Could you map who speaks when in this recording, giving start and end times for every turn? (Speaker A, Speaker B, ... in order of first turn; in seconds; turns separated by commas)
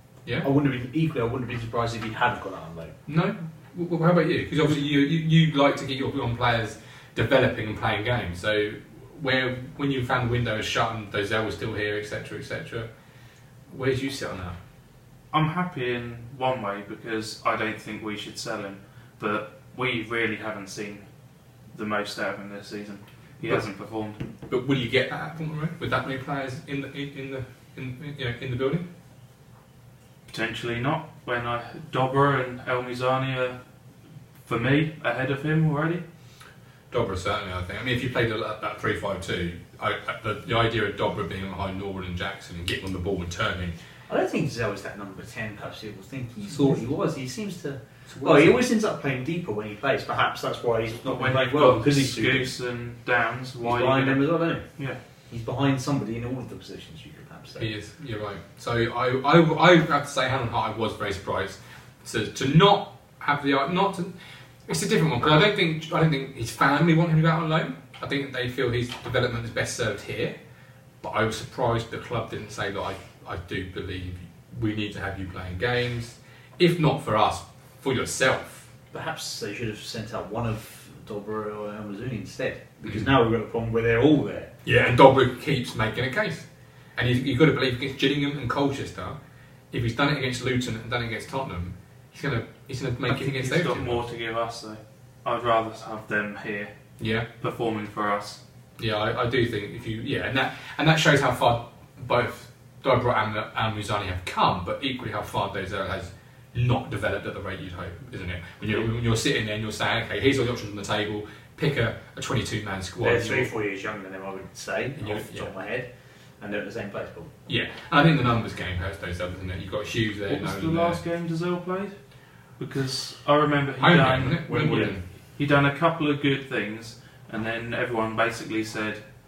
Speaker A: 0.4-3.0, Speaker B: 3.1-12.9, Speaker B: 13.7-14.6, Speaker C: 15.3-21.0, Speaker C: 21.7-24.2, Speaker B: 24.5-28.8, Speaker C: 30.3-33.6, Speaker C: 34.5-36.0, Speaker B: 36.9-43.8, Speaker A: 44.1-52.5, Speaker B: 48.1-48.6, Speaker C: 51.1-55.0, Speaker A: 53.6-54.6, Speaker A: 55.3-57.7, Speaker B: 57.6-64.1, Speaker B: 64.7-70.4, Speaker B: 71.0-78.7, Speaker A: 78.9-84.5, Speaker B: 84.6-89.2, Speaker B: 89.7-94.0, Speaker C: 93.1-96.7, Speaker B: 97.0-97.3, Speaker C: 97.4-98.4, Speaker B: 98.8-113.5, Speaker A: 113.0-115.9, Speaker B: 115.0-115.5, Speaker A: 116.4-117.3, Speaker B: 117.5-121.0, Speaker C: 120.3-121.9, Speaker C: 122.6-129.0, Speaker B: 123.8-125.0